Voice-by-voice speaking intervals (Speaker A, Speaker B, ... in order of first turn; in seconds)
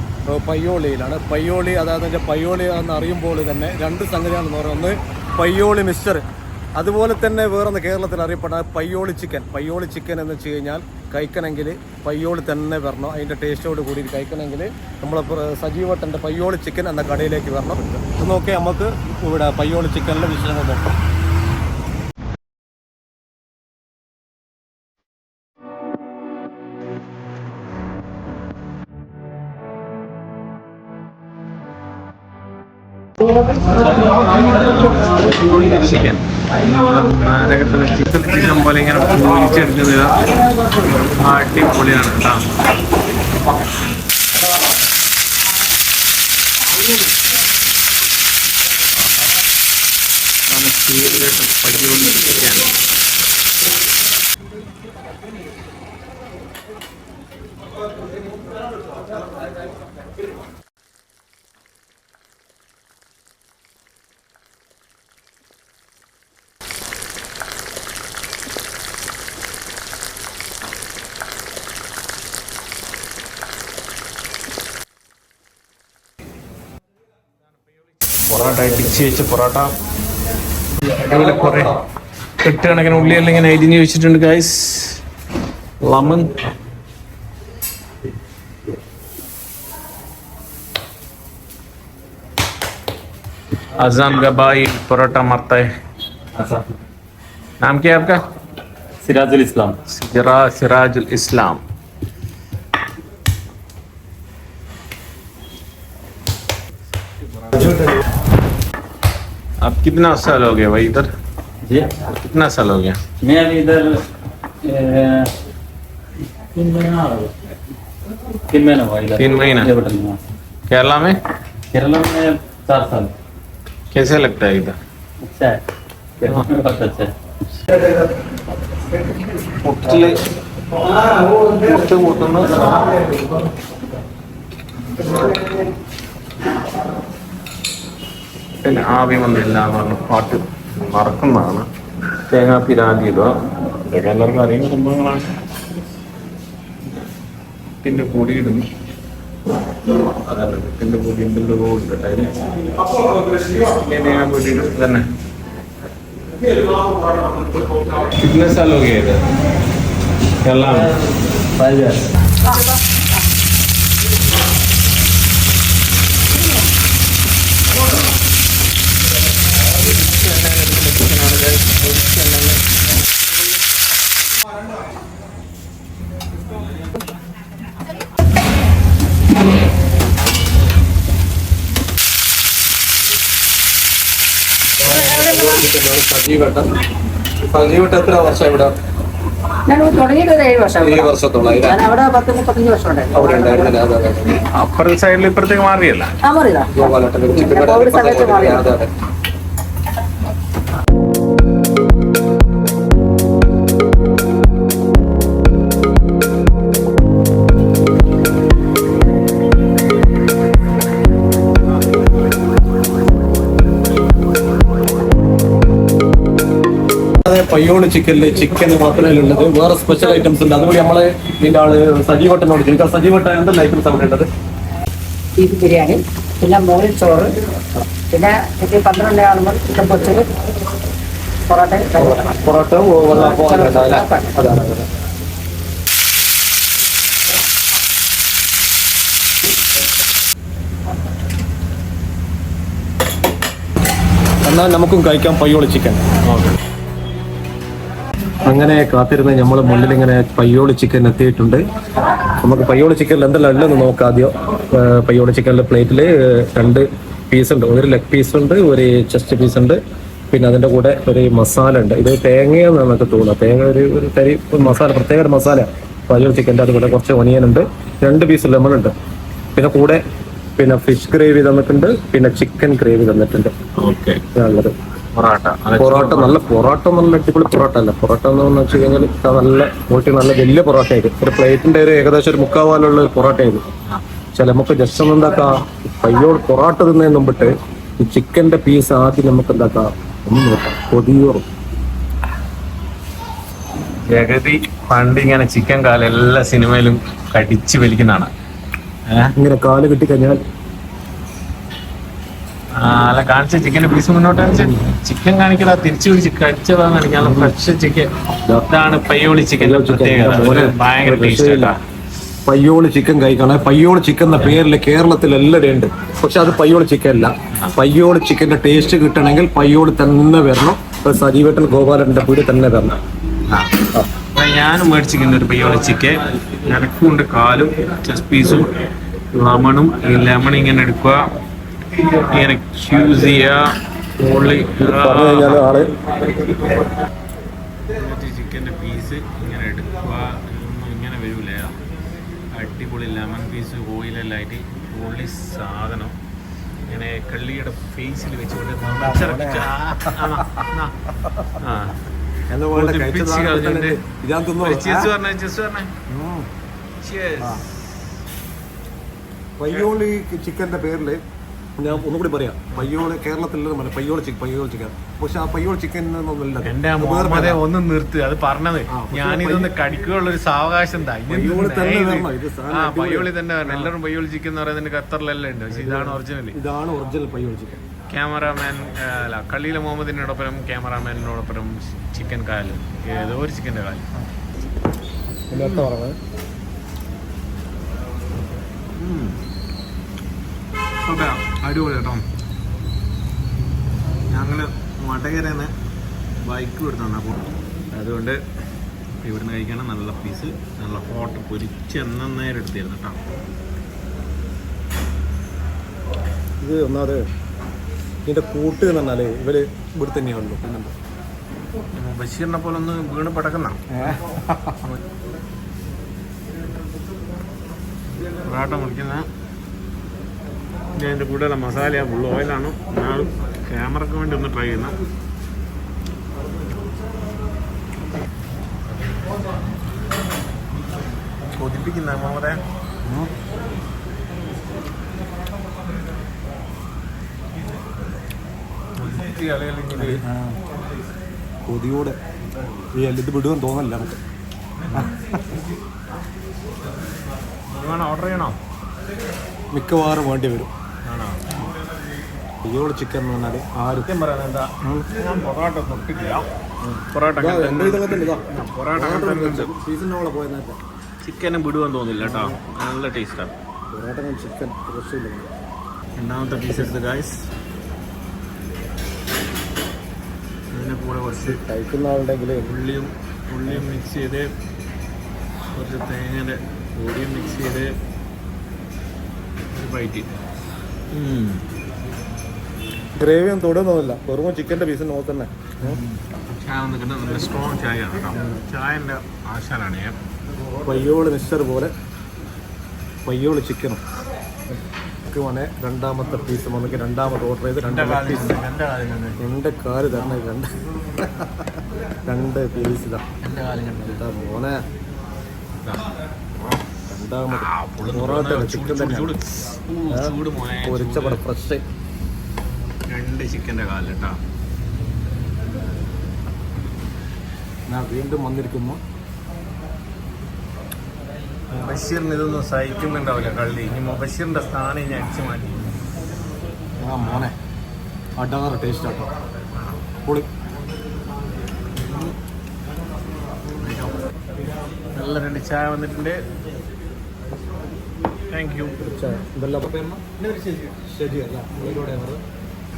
Speaker A: 0.3-6.2, 6.8-20.9, 107.5-107.9, 184.8-186.7, 187.4-188.7, 190.8-191.8, 193.1-194.4, 196.7-198.9, 217.2-224.3, 232.0-234.8, 244.4-246.0, 248.4-251.6, 252.4-259.8, 260.3-268.9, 269.5-270.0, 270.6-273.5, 274.3-274.7, 275.8-283.6, 284.4-291.4, 299.4-300.4, 309.6-311.7, 312.4-322.9, 334.8-336.3, 349.0-350.6, 352.5-355.1, 356.1-356.5, 359.6-361.2, 361.8-367.6, 368.9-369.7, 371.3-373.9, 375.7-377.8, 385.5-386.2, 406.6-407.2, 408.2-410.9, 413.9-414.8, 433.0-433.3, 440.0-440.6, 441.6-442.2, 443.0-444.2, 449.7-450.7, 452.6-454.1, 456.8-458.4, 458.9-460.8, 462.2-462.6, 463.9-465.5, 471.7-472.7, 483.2-486.0, 490.8-491.9, 493.2-494.0, 495.2-498.5, 499.4-503.2, 504.0-504.8, 507.1-509.3, 510.1-511.8, 517.9-519.0, 527.0-527.5, 528.4-529.3, 539.0-540.2, 541.1-542.4
Speaker B: 34.7-40.1, 41.0-42.4, 50.5-52.7, 78.3-79.7, 80.8-81.8, 82.4-85.0, 85.8-86.5, 93.8-95.7, 97.6-98.2, 99.9-101.6, 107.3-107.5, 109.6-111.1, 112.1-113.0, 119.2-119.7, 120.7-121.2, 123.9-124.8, 129.4-130.2, 130.7-133.1, 138.6-141.7, 142.3-145.3, 147.8-148.6, 149.9-155.0, 157.8-159.2, 160.4-160.9, 169.8-172.6, 194.5-196.2, 246.2-246.6, 273.8-274.2, 275.1-276.4, 294.1-298.3, 302.8-308.1, 308.6-311.8, 323.4-323.7, 324.3-328.8, 329.3-331.2, 331.9-333.6, 334.2-335.7, 336.4-336.8, 337.9-341.8, 342.5-346.2, 346.9-350.9, 351.6-352.0, 352.7-354.0, 354.6-355.9, 357.0-357.6, 366.6-376.6, 378.1-384.1, 385.5-385.9, 389.0-389.4, 391.1-392.2, 394.3-395.7, 396.4-398.4, 399.2-403.2, 411.9-414.2, 418.4-419.2, 420.9-425.0, 431.4-432.6, 439.0-440.2, 447.7-448.6, 451.1-451.7, 454.1-456.5, 457.1-459.7, 461.2-463.5, 466.2-467.4, 470.7-471.6, 472.6-474.5, 475.7-477.9, 479.7-480.3, 481.1-481.6, 485.8-490.2, 497.8-499.4, 503.4-504.2, 505.8-506.8, 507.5-511.4, 513.1-514.4, 521.7-525.9, 529.8-530.0, 531.9-532.3, 533.6-534.2, 535.1-536.4, 538.5-538.9, 540.4-540.8
Speaker C: 96.3-96.6, 99.0-99.8, 111.6-111.9, 113.2-114.0, 114.6-115.3, 116.5-117.3, 118.5-120.2, 121.7-123.1, 125.2-125.6, 126.2-127.1, 161.6-162.1
Speaker D: 189.7-191.1, 191.6-193.7, 196.2-196.7, 197.3-198.7, 225.4-227.3, 228.1-230.3, 231.5-232.1, 233.2-234.4